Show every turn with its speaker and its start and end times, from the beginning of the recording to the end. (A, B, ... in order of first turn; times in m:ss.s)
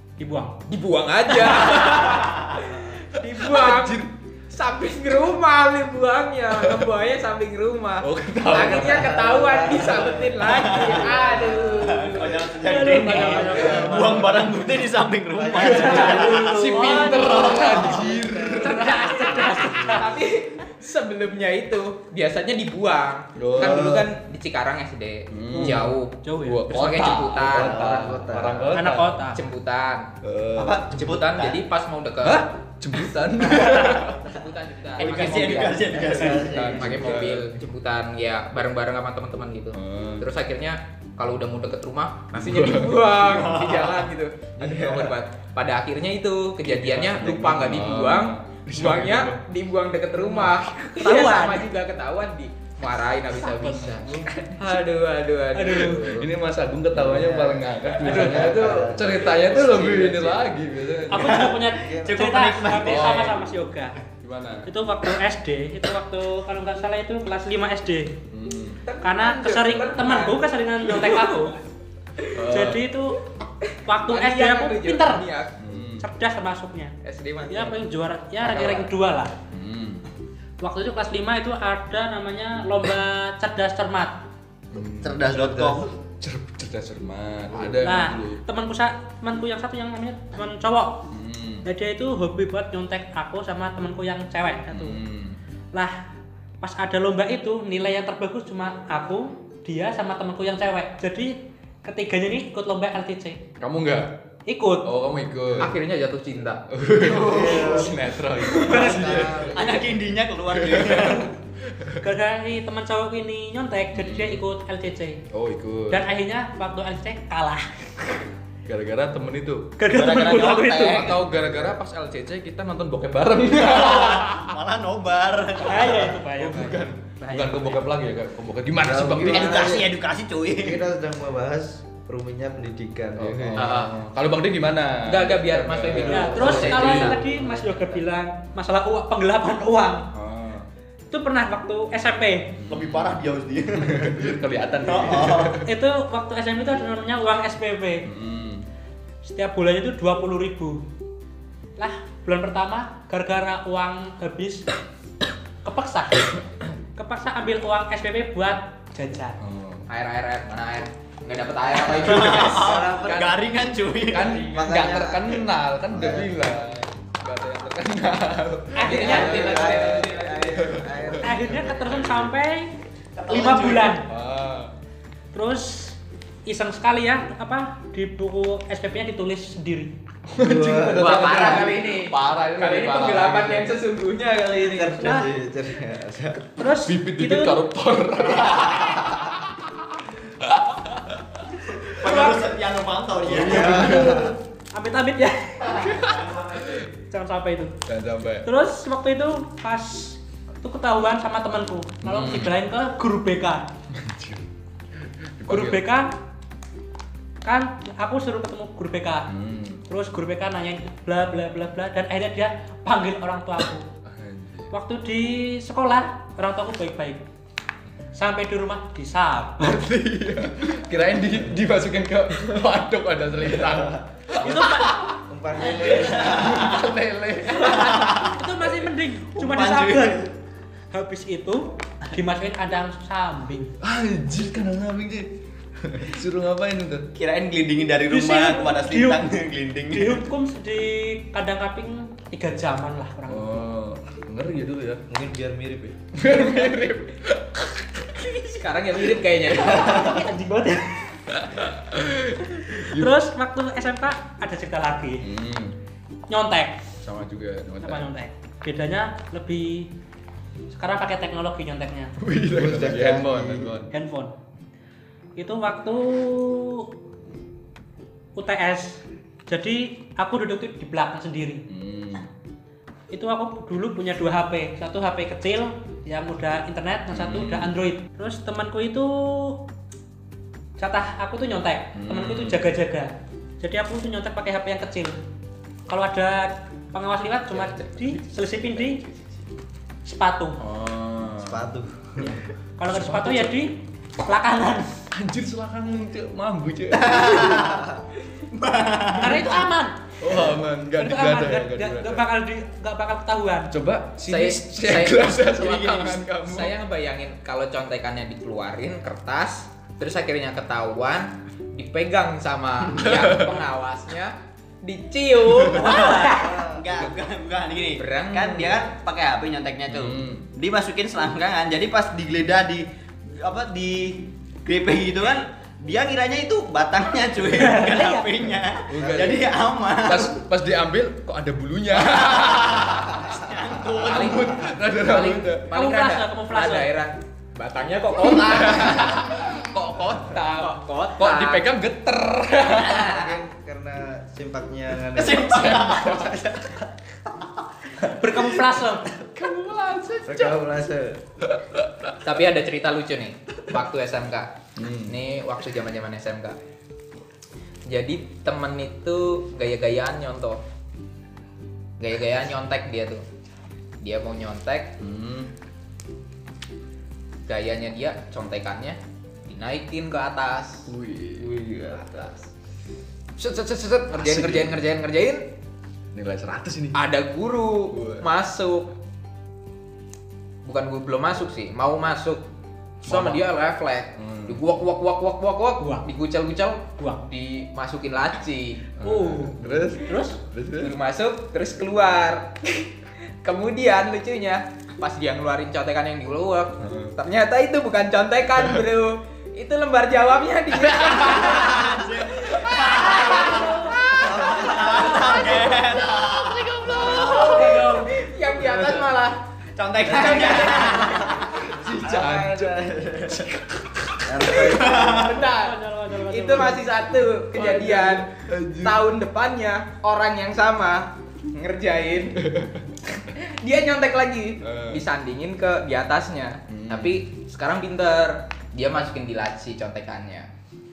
0:00.2-0:00.6 A
0:00.7-0:12.5 B
0:03.2-0:04.1 C
0:06.6-0:06.9 C
0:08.0-0:09.2 C
0:08.5-0:11.4 D
0:10.4-0:17.7 E
0:12.6-0:14.2 A
0:13.1-0:14.6 D
0:13.1-0:14.6 C
0:15.3-0:18.7 D
0:15.6-0:19.6 C
0:15.9-0:20.1 A
0:18.8-0:28.1 B
0:23.3-0:24.1 C
0:25.3-0:29.3 C
0:25.5-0:26.6 A
0:27.4-0:28.9 D
0:28.7-0:29.4 A
0:29.3-0:30.1 B
0:30.2-0:31.1 C
0:30.6-0:31.6 E
0:31.0-0:32.5 B
0:32.2-0:34.2 C
0:33.0-0:36.0 B
0:33.5-0:33.8 E
0:35.0-0:36.7 E
0:35.0-0:37.5 C
0:35.8-0:37.2 D
0:36.1-0:36.5 A
0:36.6-0:56.3 B
0:39.7-0:40.3 C
0:42.3-0:43.0 C
0:43.2-0:44.1 E
0:44.6-0:45.2 D
0:46.6-0:49.4 C
0:51.0-0:51.6 E
0:53.5-0:54.5 A
0:53.6-0:54.3 C
0:55.5-0:56.1 A
0:55.8-1:01.4 C
0:56.9-1:00.5 D
1:01.1-1:04.0 A
1:01.1-1:03.3 E
1:01.6-1:02.2 D
1:02.8-1:03.4 C
1:04.2-1:04.7 C
1:04.7-1:08.1 A
1:08.3-1:08.8 C
1:08.8-1:11.4 B
1:09.0-1:11.6 A
1:12.3-1:12.9 C
1:12.4-1:13.2 A
1:13.8-1:15.2 A
1:13.9-1:15.6 B
1:15.6-1:16.1 C
1:16.0-1:16.9 A
1:17.0-1:17.8 B
1:17.5-1:19.4 A
1:18.4-1:18.9 B
1:19.5-1:20.1 C
1:20.6-1:24.2 A
1:24.7-1:28.4 C
1:25.0-1:25.9 E
1:27.8-1:31.1 A
1:31.1-1:31.6 C
1:31.6-1:35.0 A
1:34.7-1:35.4 C
1:36.6-1:43.4 A
1:43.6-1:44.2 C
1:44.5-1:44.9 A
1:44.8-1:45.7 C
1:45.6-1:46.6 B
1:46.7-1:49.8 C
1:47.0-1:47.9 E
1:47.2-1:49.9 D
1:48.5-1:49.2 A
1:49.5-1:51.3 E
1:50.5-1:52.0 C
1:52.0-1:55.2 A
1:53.9-1:54.4 C
1:55.3-1:56.0 C
1:55.9-1:58.2 A
1:58.6-1:59.7 C
1:59.8-2:01.2 A
1:59.9-2:01.2 E
2:00.8-2:04.5 C
2:01.3-2:01.7 D
2:03.7-2:06.1 E
2:05.6-2:07.8 A
2:06.3-2:09.8 C
2:08.8-2:09.9 D
2:09.2-2:10.8 E
2:10.6-2:13.7 D
2:13.2-2:17.3 C
2:13.6-2:14.0 B
2:15.0-2:17.6 B
2:15.9-2:17.7 D
2:16.0-2:20.1 A
2:20.1-2:20.7 C
2:21.1-2:22.6 A
2:22.6-2:23.2 C
2:22.7-2:25.6 E
2:23.8-2:25.6 C
2:25.6-2:28.1 A
2:28.0-2:28.7 C
2:29.2-2:30.8 A
2:31.8-2:34.7 A
2:35.6-2:36.4 A
2:37.0-2:39.4 A
2:39.4-2:39.9 C
2:39.9-2:42.7 B
2:41.8-2:44.4 E
2:42.2-2:43.4 D
2:43.1-2:43.3 C
2:44.1-2:52.1 C
2:44.2-2:46.7 D
2:48.7-2:49.5 A
2:48.8-2:50.6 B
2:49.0-2:52.1 D
2:51.2-2:52.7 A
2:53.2-2:54.0 E
2:53.3-2:54.1 A
2:54.0-2:54.7 C
2:55.3-2:59.9 A
3:00.3-3:03.8 C
3:00.4-3:01.4 D
3:00.9-3:05.1 B
3:04.6-3:06.5 D
3:05.0-3:05.3 A
3:06.5-3:07.6 A
3:06.8-3:12.1 C
3:11.9-3:14.0 E
3:12.0-3:12.4 A
3:13.2-3:14.4 C
3:13.3-3:14.4 D
3:14.7-3:15.9 A
3:15.7-3:16.8 E
3:15.8-3:16.7 C
3:17.1-3:17.7 A
3:17.9-3:18.5 C
3:18.4-3:23.7 A
3:22.0-3:22.6 C
3:23.9-3:24.4 C
3:25.4-3:25.9 C
3:25.5-3:26.1 A
3:27.4-3:29.3 A
3:29.3-3:29.8 C
3:29.9-3:33.8 A
3:34.0-3:34.7 C
3:34.7-3:37.2 A
3:38.1-3:39.7 A
3:39.6-3:48.7 C
3:44.4-3:45.0 A
3:45.2-3:46.8 D
3:47.6-3:50.3 A
3:47.7-3:48.3 E
3:49.3-3:50.3 E
3:50.9-3:53.7 A
3:53.8-3:57.1 C
3:57.1-4:00.2 E
3:58.1-3:59.2 A
3:59.9-4:03.7 A
4:03.3-4:05.0 C
4:05.1-4:06.0 D
4:06.1-4:08.3 C
4:08.4-4:10.2 B
4:09.6-4:11.2 A
4:11.3-4:13.1 C
4:12.8-4:15.3 A
4:15.2-4:15.8 C
4:16.3-4:16.8 A
4:17.0-4:18.1 C
4:17.8-4:19.9 A
4:20.7-4:22.1 A
4:22.2-4:23.9 C
4:22.5-4:23.8 D
4:23.9-4:24.3 A
4:25.4-4:26.9 A
4:28.3-4:31.6 A
4:31.7-4:32.3 C
4:33.1-4:39.6 A
4:37.1-4:37.8 C
4:40.8-4:45.2 A
4:41.9-4:42.7 C
4:45.9-4:49.0 A
4:47.5-4:48.0 B
4:50.0-4:50.6 A
4:50.6-4:51.7 C
4:51.4-4:52.4 D
4:52.2-4:55.0 A
4:52.9-4:53.6 C
4:55.1-4:57.6 C
4:56.9-4:57.8 E
4:58.5-4:59.7 E
4:59.2-5:00.4 A
5:00.2-5:02.3 C
5:00.9-5:03.7 A
5:03.7-5:06.7 C
5:04.2-5:16.1 B
5:12.9-5:13.6 C
5:15.7-5:30.4 E
5:15.8-5:16.5 A
5:16.3-5:16.8 D
5:18.0-5:18.8 B
5:19.9-5:20.5 C
5:27.5-5:28.3 A
5:28.9-5:35.7 C
5:29.0-5:29.4 D
5:32.0-5:34.6 E
5:34.1-5:39.4 B
5:35.7-5:36.9 A
5:38.1-5:43.2 C
5:40.3-5:41.7 B
5:43.0-5:45.8 D
5:45.1-5:46.8 E
5:45.3-5:46.4 C
5:48.0-5:49.1 A
5:49.1-5:50.6 C
5:50.2-5:51.2 D
5:51.4-5:52.2 C
5:52.2-5:56.6 B
5:54.8-5:55.2 C
5:57.9-6:00.6 B
6:02.0-6:03.2 B
6:04.0-6:05.0 B
6:05.0-6:05.5 C
6:07.5-6:10.9 B
6:10.8-6:11.5 C
6:11.4-6:12.5 D
6:11.9-6:12.3 B
6:13.4-6:15.5 B
6:14.1-6:14.8 C
6:16.1-6:17.0 C
6:16.9-6:18.9 B
6:17.9-6:18.3 C
6:20.6-6:22.4 B
6:23.0-6:28.9 B
6:23.0-6:23.4 C
6:24.1-6:24.6 C
6:25.8-6:26.1 A
6:27.0-6:27.2 A
6:29.0-6:31.0 C
6:29.0-6:30.4 A
6:30.8-6:32.9 B
6:33.4-6:45.8 B
6:36.8-6:37.1 C
6:40.7-6:41.8 C
6:41.5-6:47.7 E
6:43.0-6:44.1 A
6:44.1-6:45.4 D
6:45.9-6:47.4 C
6:46.8-6:49.4 B
6:47.2-6:48.2 A
6:49.8-6:51.5 E
6:50.0-6:51.3 B
6:51.6-6:54.6 C
6:51.8-6:53.4 D
6:54.2-6:55.4 D
6:54.5-6:55.4 E
6:55.0-6:55.8 B
6:55.3-6:56.9 A
6:56.3-6:58.3 B
6:57.5-6:59.0 C
6:58.8-7:02.4 B
7:02.4-7:02.8 C
7:03.3-7:10.5 B
7:04.6-7:05.0 C
7:06.7-7:07.2 C